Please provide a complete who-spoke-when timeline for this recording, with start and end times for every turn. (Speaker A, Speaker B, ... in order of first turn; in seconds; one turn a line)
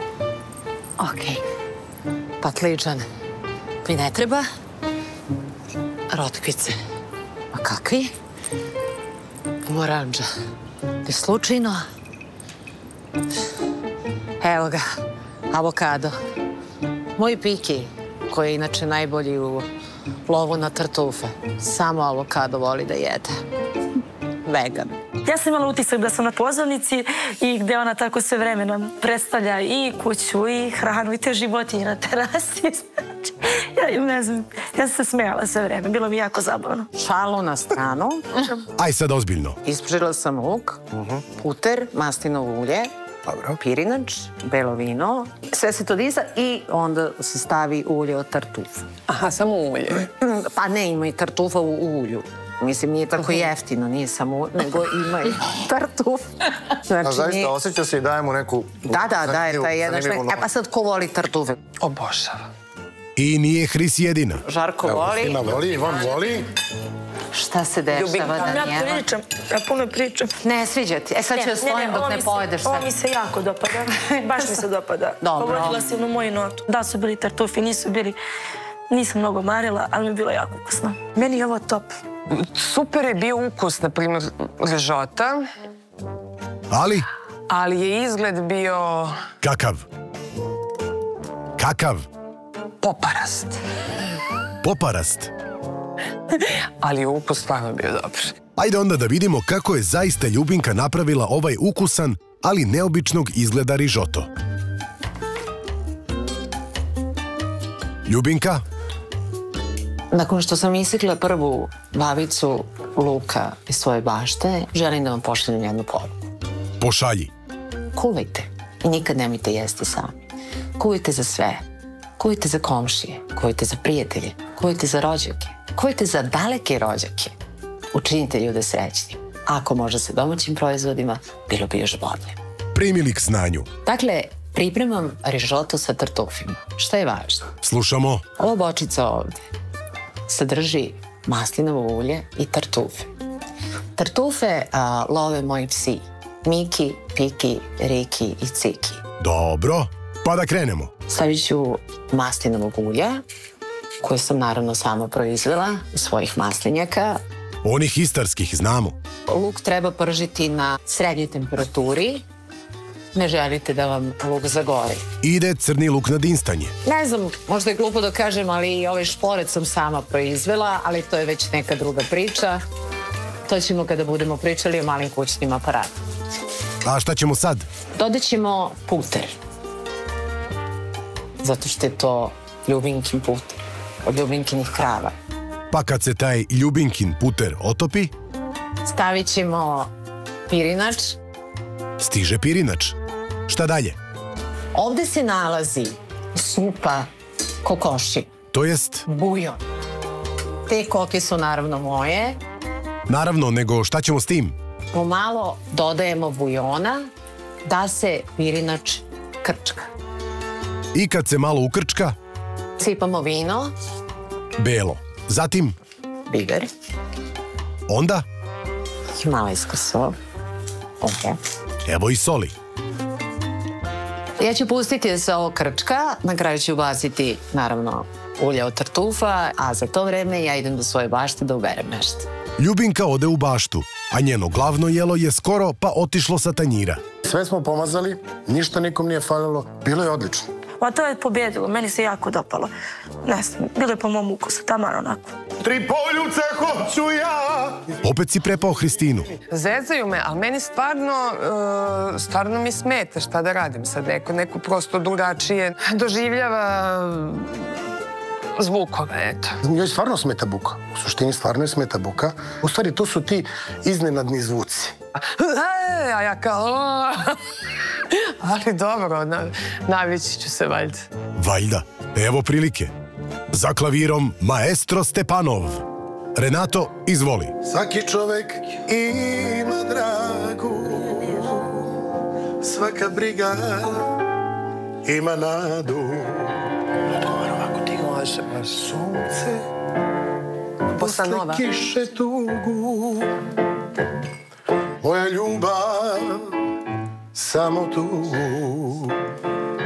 Speaker A: 1.0-1.4
Speaker A: 2.4-3.1
Speaker A: 3.8-4.5
Speaker A: 6.1-6.8
Speaker A: 7.5-8.1
Speaker A: 9.7-10.3
Speaker A: 11.0-11.8
Speaker A: 14.4-14.8
Speaker A: 15.5-16.2
Speaker A: 17.2-19.6
Speaker A: 20.3-23.4
Speaker A: 24.4-24.9
Speaker B: 25.2-36.9
Speaker A: 37.0-38.4
Speaker C: 38.8-39.6
Speaker A: 39.6-40.8
Speaker A: 41.4-42.9
Speaker A: 43.6-48.9
Speaker D: 49.1-50.1
Speaker A: 50.2-56.3
Speaker A: 56.8-57.5
Speaker E: 57.0-60.4
Speaker A: 58.9-61.6
Speaker D: 61.8-62.5
Speaker C: 63.1-64.4
Speaker A: 64.4-65.4
Speaker F: 64.9-66.5
Speaker A: 67.3-69.0
Speaker B: 67.9-70.3
Speaker A: 70.4-72.9
Speaker B: 71.3-78.2
Speaker A: 75.2-75.9
Speaker B: 78.9-82.0
Speaker D: 82.3-85.5
Speaker C: 86.7-87.1
Speaker D: 87.5-89.2
Speaker C: 89.4-89.8
Speaker C: 91.6-92.1
Speaker D: 92.8-93.6
Speaker C: 94.6-95.3
Speaker D: 96.3-98.3
Speaker C: 98.5-104.3
Speaker C: 108.0-108.6
Speaker A: 110.1-116.1
Speaker C: 116.8-117.3
Speaker A: 117.9-120.1
Speaker A: 120.8-121.6
Speaker A: 122.2-127.3
Speaker A: 127.9-132.3
Speaker C: 132.7-133.7
Speaker A: 133.8-137.5
Speaker C: 137.6-138.2
Speaker A: 138.4-139.4
Speaker A: 140.3-143.1
Speaker A: 143.9-149.0
Speaker C: 149.2-150.9
Speaker A: 151.1-153.2
Speaker A: 154.0-157.2
Speaker C: 157.6-158.9
Speaker A: 159.3-162.2
Speaker A: 163.1-165.0
Speaker C: 165.2-166.7
Speaker A: 166.8-172.6
Speaker A: 173.4-175.9
Speaker C: 176.8-177.7
Speaker A: 178.0-179.3
Speaker A: 181.4-185.1
Speaker C: 185.7-188.1
Speaker A: 188.8-189.9
Speaker A: 190.5-191.2
Speaker C: 192.0-192.9
Speaker C: 193.5-193.9
Speaker A: 194.7-197.1
Speaker A: 197.6-198.3
Speaker C: 198.5-199.0
Speaker A: 199.1-199.6
Speaker A: 200.7-202.4
Speaker C: 203.1-204.5
Speaker A: 204.9-207.1
Speaker A: 207.6-209.9
Speaker C: 210.9-212.2
Speaker A: 212.8-213.7
Speaker C: 214.6-215.8
Speaker A: 216.3-216.7
Speaker C: 217.9-218.2
Speaker A: 219.2-220.2
Speaker A: 221.0-221.4
Speaker C: 221.8-222.5
Speaker A: 224.4-232.2
Speaker C: 232.6-237.0
Speaker F: 237.2-240.5
Speaker B: 240.8-242.7
Speaker B: 243.2-245.3
Speaker F: 245.6-247.9
Speaker C: 248.0-249.3
Speaker D: 249.5-257.7
Speaker D: 258.6-259.6
Speaker F: 259.6-264.9
Speaker D: 265.4-267.4
Speaker D: 268.1-271.0
Speaker C: 271.4-272.9
Speaker C: 273.5-275.8
Speaker C: 276.3-277.5
Speaker F: 277.6-281.8
Speaker F: 282.6-284.1
Speaker F: 285.0-286.6
Speaker D: 287.6-288.7
Speaker F: 288.7-289.6
Speaker F: 290.9-293.3
Speaker D: 290.9-291.6
Speaker F: 295.0-296.5
Speaker F: 297.3-299.2